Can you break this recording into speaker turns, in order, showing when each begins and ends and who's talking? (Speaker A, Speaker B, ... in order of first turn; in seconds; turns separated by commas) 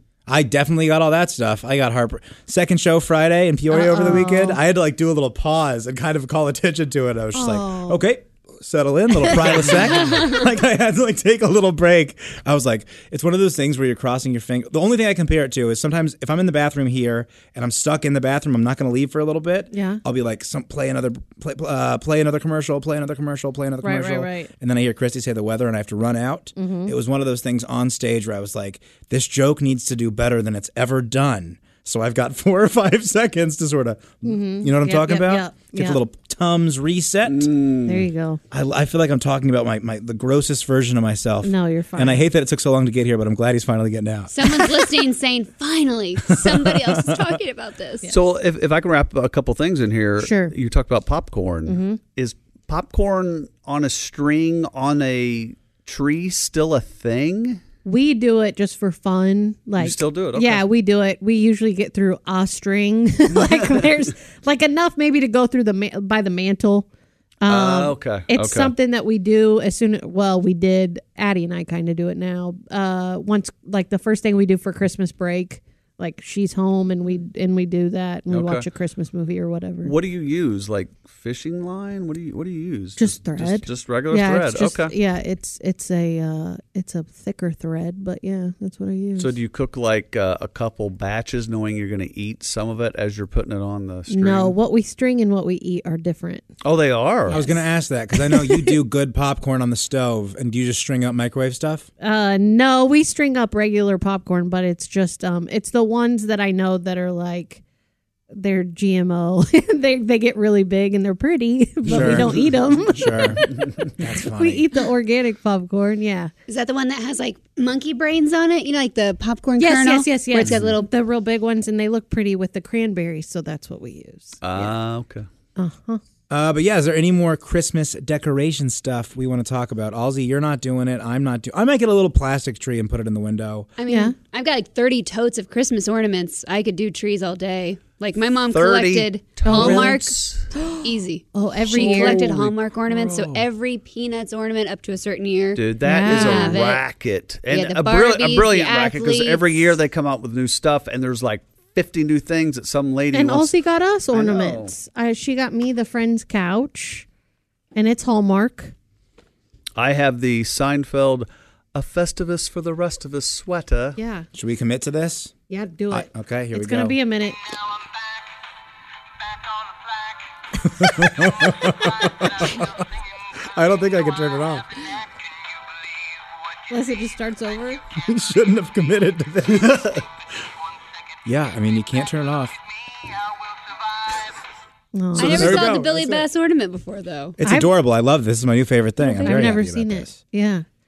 Speaker A: 0.3-37.5, Speaker B: 3.7-4.6, Speaker B: 7.3-8.0, Speaker B: 9.4-10.0, Speaker C: 9.8-10.3, Speaker B: 19.7-20.0, Speaker B: 23.8-24.5, Speaker B: 26.6-26.9, Speaker B: 34.2-36.0, Speaker D: 37.2-38.1, Speaker B: 37.9-38.4, Speaker A: 38.5-44.8, Speaker B: 41.4-42.2, Speaker C: 44.3-48.1, Speaker A: 46.3-47.0, Speaker D: 48.1-57.6, Speaker B: 50.2-50.5, Speaker B: 51.7-52.0, Speaker B: 57.8-66.9, Speaker D: 59.8-60.6, Speaker D: 63.4-63.8, Speaker B: 67.4-79.9, Speaker D: 67.5-68.7, Speaker D: 78.3-78.7, Speaker D: 79.8-84.9, Speaker B: 83.0-89.3, Speaker D: 89.2-94.5, Speaker B: 94.1-96.5, Speaker D: 96.6-97.4, Speaker A: 97.3-101.9, Speaker B: 97.3-97.6, Speaker B: 98.2-98.7, Speaker B: 102.0-107.6, Speaker B: 108.3-113.4, Speaker A: 111.8-114.7, Speaker D: 111.9-112.4, Speaker B: 114.3-116.3, Speaker C: 116.5-120.9, Speaker B: 119.6-124.7, Speaker D: 124.4-125.2, Speaker B: 125.6-126.0, Speaker A: 126.3-133.7, Speaker C: 133.8-146.9, Speaker B: 133.9-134.1, Speaker D: 138.5-140.7, Speaker B: 139.4-140.0, Speaker B: 140.5-142.3, Speaker D: 141.7-142.6, Speaker D: 145.5-153.5, Speaker B: 145.8-146.6, Speaker C: 147.5-149.6, Speaker B: 153.1-157.1, Speaker D: 154.1-154.7, Speaker B: 157.7-158.7, Speaker D: 159.8-164.0, Speaker B: 164.0-164.3, Speaker A: 164.3-165.3, Speaker B: 165.5-167.4, Speaker A: 165.9-167.0, Speaker A: 170.6-172.7, Speaker A: 173.5-174.7, Speaker B: 176.7-177.8, Speaker A: 178.0-180.0, Speaker A: 181.2-182.5, Speaker B: 184.9-185.8, Speaker A: 185.1-186.2, Speaker C: 185.2-187.3, Speaker A: 187.4-190.2, Speaker B: 187.4-187.7, Speaker B: 189.0-190.6